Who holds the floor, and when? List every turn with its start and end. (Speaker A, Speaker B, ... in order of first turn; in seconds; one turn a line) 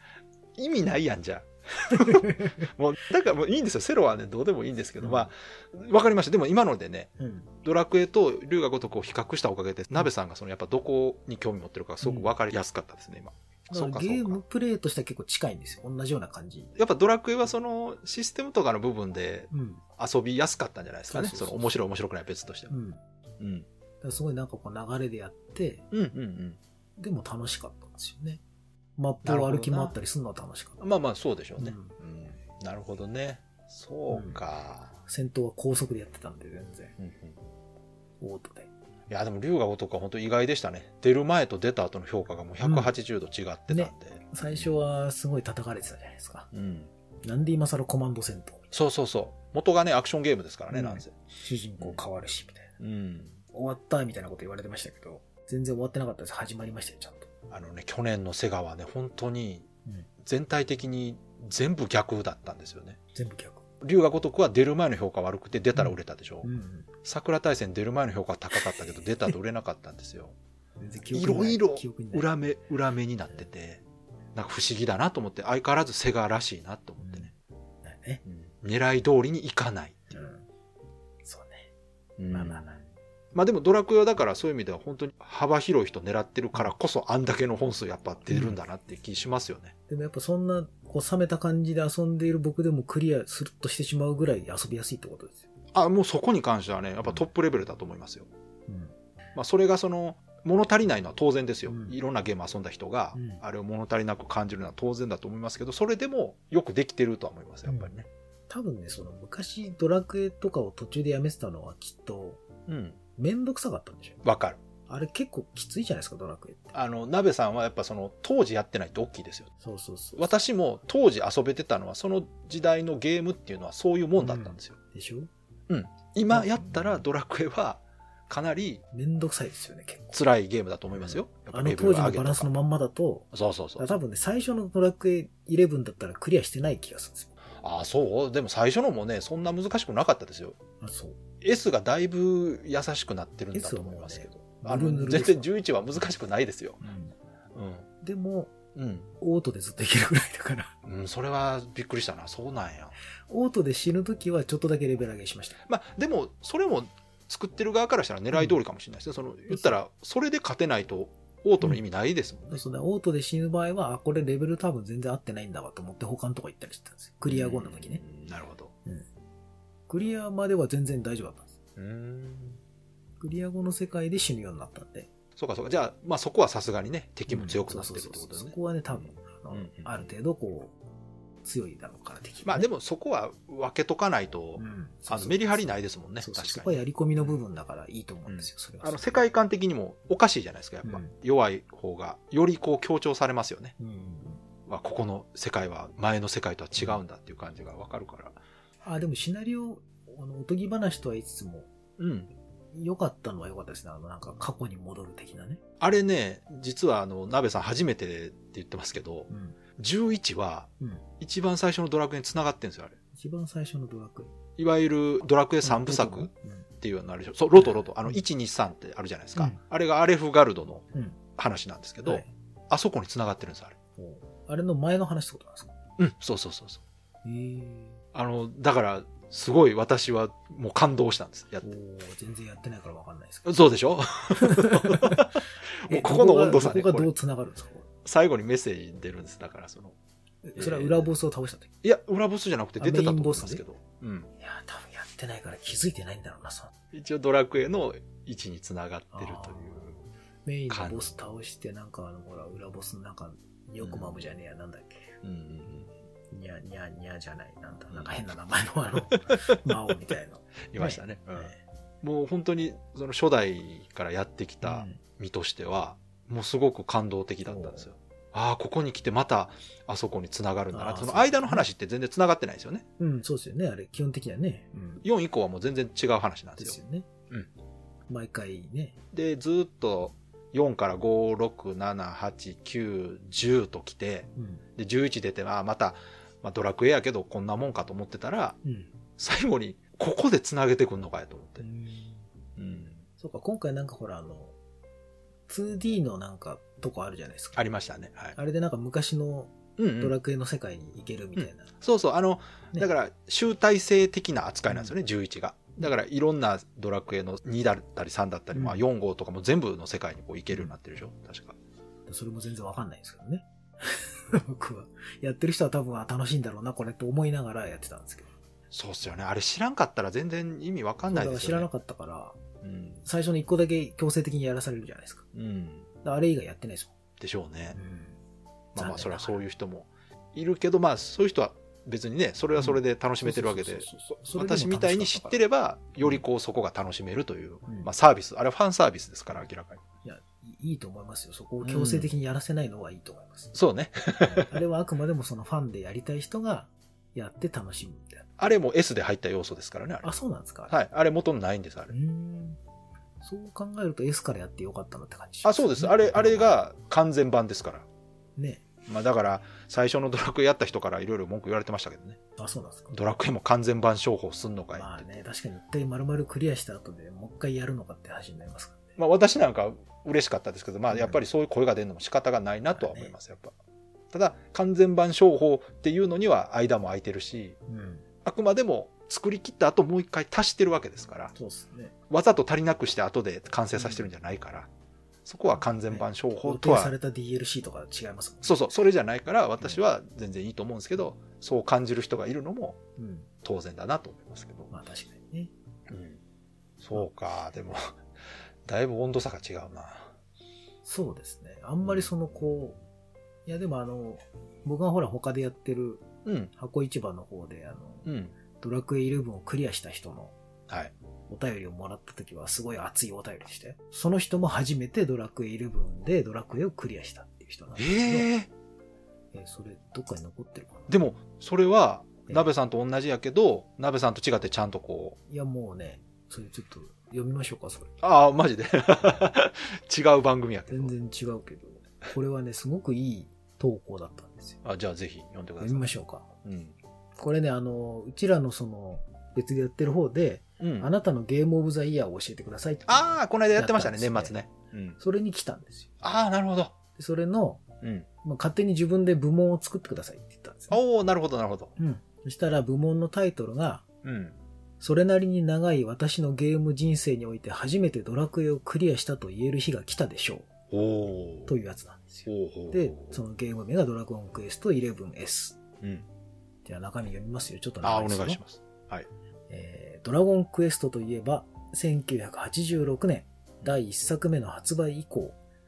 Speaker A: 0.6-7.1
Speaker B: 2.0-2.6
Speaker B: 5.0-5.3
Speaker B: 7.2-7.5
Speaker A: 7.6-14.4
Speaker B: 12.0-12.3
Speaker B: 13.7-16.7
Speaker A: 16.8-22.7
Speaker B: 19.5-19.8
Speaker B: 21.1-21.8
Speaker B: 22.7-23.0
Speaker A: 23.4-23.7
Speaker B: 24.0-25.8
Speaker A: 25.9-26.6
Speaker B: 27.0-28.4
Speaker B: 29.0-30.8
Speaker A: 29.2-29.9
Speaker A: 30.8-35.0
Speaker B: 31.6-31.9
Speaker B: 34.1-34.4
Speaker B: 35.0-37.0
Speaker A: 37.0-37.4
Speaker B: 38.2-38.7
Speaker A: 39.1-44.7
Speaker B: 42.6-42.9
Speaker B: 43.7-46.5
Speaker A: 46.5-46.9
Speaker B: 47.2-48.7
Speaker A: 48.7-51.1
Speaker B: 50.7-52.7
Speaker A: 52.8-53.4
Speaker B: 53.5-57.3
Speaker A: 57.5-59.7
Speaker A: 60.2-63.0
Speaker B: 63.1-63.6
Speaker A: 63.8-66.5
Speaker B: 65.7-66.9
Speaker A: 67.0-70.3
Speaker B: 70.8-72.3
Speaker A: 71.1-73.8
Speaker A: 74.3-77.3
Speaker B: 77.0-77.3
Speaker B: 77.8-78.2
Speaker A: 78.2-80.1
Speaker B: 80.1-80.4
Speaker B: 81.2-81.7
Speaker A: 82.2-82.8
Speaker B: 82.3-82.8
Speaker A: 83.3-89.7
Speaker B: 88.3-88.6
Speaker B: 89.9-95.5
Speaker A: 95.7-98.3
Speaker B: 98.7-98.9
Speaker A: 99.3-108.1
Speaker B: 101.7-102.0
Speaker B: 103.1-103.4
Speaker B: 107.7-107.9
Speaker B: 108.5-112.4
Speaker A: 112.7-113.0
Speaker B: 113.2-114.2
Speaker A: 114.2-114.6
Speaker B: 114.9-116.7
Speaker A: 116.7-119.5
Speaker B: 119.6-120.3
Speaker A: 120.2-124.8
Speaker B: 124.2-125.3
Speaker A: 125.7-128.8
Speaker B: 126.3-127.0
Speaker B: 128.9-130.2
Speaker A: 130.1-132.5
Speaker B: 130.9-137.3
Speaker A: 133.3-133.9
Speaker A: 137.6-140.6
Speaker B: 140.8-141.2
Speaker A: 141.4-146.8
Speaker B: 143.5-145.5
Speaker B: 146.8-147.1
Speaker A: 147.5-147.9
Speaker B: 148.0-148.5
Speaker A: 148.7-149.1
Speaker B: 149.2-150.7
Speaker A: 150.8-152.9
Speaker B: 153.3-155.6
Speaker A: 155.6-162.6
Speaker B: 159.5-159.8
Speaker B: 162.5-168.0
Speaker A: 167.3-168.7
Speaker B: 169.9-171.6
Speaker A: 171.8-172.6
Speaker B: 173.2-175.1
Speaker A: 175.3-180.1
Speaker B: 177.3-180.7
Speaker B: 181.4-182.7
Speaker A: 182.4-187.3
Speaker B: 184.6-189.2
Speaker A: 188.3-193.7
Speaker B: 190.8-191.1
Speaker B: 193.8-194.4
Speaker A: 194.7-198.4
Speaker B: 198.8-201.7
Speaker A: 202.0-202.3
Speaker B: 202.7-205.6
Speaker A: 205.8-213.0
Speaker B: 209.3-209.6
Speaker B: 210.8-211.0
Speaker B: 213.1-214.3
Speaker A: 214.6-216.3
Speaker B: 215.6-216.7
Speaker A: 216.8-223.8
Speaker B: 217.5-218.2
Speaker B: 222.0-222.3
Speaker B: 224.0-225.7
Speaker A: 226.0-226.8
Speaker B: 227.2-228.0
Speaker A: 228.1-231.7
Speaker B: 231.6-233.5
Speaker A: 233.4-237.1
Speaker B: 234.3-237.8
Speaker A: 238.0-239.9
Speaker B: 240.4-241.7
Speaker A: 240.6-241.1
Speaker A: 241.8-244.3
Speaker B: 242.8-243.6
Speaker B: 244.4-246.7
Speaker A: 246.9-250.0
Speaker B: 249.1-249.9
Speaker B: 250.4-255.1
Speaker A: 250.7-251.1
Speaker A: 253.8-254.2
Speaker A: 255.2-255.9
Speaker B: 256.3-261.6
Speaker A: 257.9-258.2
Speaker A: 259.2-259.6
Speaker A: 260.7-261.5
Speaker A: 262.0-272.8
Speaker B: 264.6-265.0
Speaker B: 267.4-267.9
Speaker B: 270.7-271.7
Speaker B: 273.0-275.0
Speaker A: 275.0-276.8
Speaker B: 276.6-277.1
Speaker B: 278.1-278.9
Speaker A: 279.1-288.6
Speaker B: 284.4-284.6
Speaker B: 288.6-288.9
Speaker A: 289.2-291.6
Speaker B: 291.6-292.3
Speaker A: 292.6-293.0
Speaker B: 293.2-294.5
Speaker B: 295.5-297.6
Speaker A: 297.6-298.4
Speaker B: 298.4-301.7
Speaker A: 299.8-300.1
Speaker A: 301.4-311.6
Speaker B: 308.5-308.8
Speaker B: 312.1-318.3
Speaker A: 318.7-321.7
Speaker B: 321.1-322.4
Speaker A: 322.6-323.1
Speaker B: 323.0-325.2
Speaker A: 325.3-325.9
Speaker B: 326.0-326.9
Speaker A: 327.2-327.8
Speaker B: 327.7-328.2
Speaker A: 328.7-339.8
Speaker B: 328.8-329.4
Speaker B: 332.6-335.4
Speaker B: 340.0-343.6
Speaker A: 341.6-342.1
Speaker A: 343.5-344.5
Speaker B: 344.2-348.3
Speaker A: 348.4-350.1
Speaker B: 350.0-350.7
Speaker A: 350.7-351.9
Speaker B: 351.9-352.6
Speaker B: 353.2-356.5
Speaker A: 355.4-357.9
Speaker B: 358.4-358.6
Speaker A: 358.9-362.2
Speaker B: 362.4-362.9
Speaker A: 362.9-365.2
Speaker B: 364.7-368.9
Speaker A: 369.0-373.5
Speaker B: 370.9-371.2
Speaker B: 372.7-373.1
Speaker A: 374.1-377.6
Speaker B: 377.7-378.1
Speaker A: 378.2-381.3
Speaker B: 381.3-381.9
Speaker A: 382.1-384.7
Speaker B: 383.8-384.1
Speaker A: 385.2-386.9
Speaker B: 385.9-388.6
Speaker A: 388.4-392.8
Speaker B: 393.0-393.3
Speaker A: 393.4-394.7
Speaker B: 394.7-395.5
Speaker A: 395.9-396.2
Speaker A: 396.8-398.0
Speaker A: 398.6-400.1
Speaker B: 400.8-402.8
Speaker B: 403.4-410.3
Speaker A: 406.2-406.5
Speaker A: 408.1-408.3
Speaker B: 411.3-418.3
Speaker A: 417.8-418.5
Speaker B: 419.3-420.9
Speaker A: 420.9-425.2
Speaker B: 425.3-427.9
Speaker A: 428.0-430.9
Speaker B: 430.7-434.6
Speaker A: 434.6-435.9
Speaker B: 435.6-436.3
Speaker A: 436.4-436.7
Speaker B: 437.2-444.4
Speaker A: 440.6-440.9
Speaker A: 442.9-445.0
Speaker B: 445.0-445.9
Speaker A: 446.0-446.8
Speaker B: 446.9-447.6
Speaker A: 447.8-448.1
Speaker B: 448.2-450.8
Speaker A: 450.7-451.7
Speaker B: 451.8-453.8
Speaker A: 454.0-454.4
Speaker B: 454.8-460.5
Speaker A: 460.7-461.5
Speaker B: 461.5-465.6
Speaker A: 462.3-463.2
Speaker A: 465.8-466.1
Speaker B: 466.6-468.4
Speaker A: 467.8-469.1
Speaker B: 469.5-475.4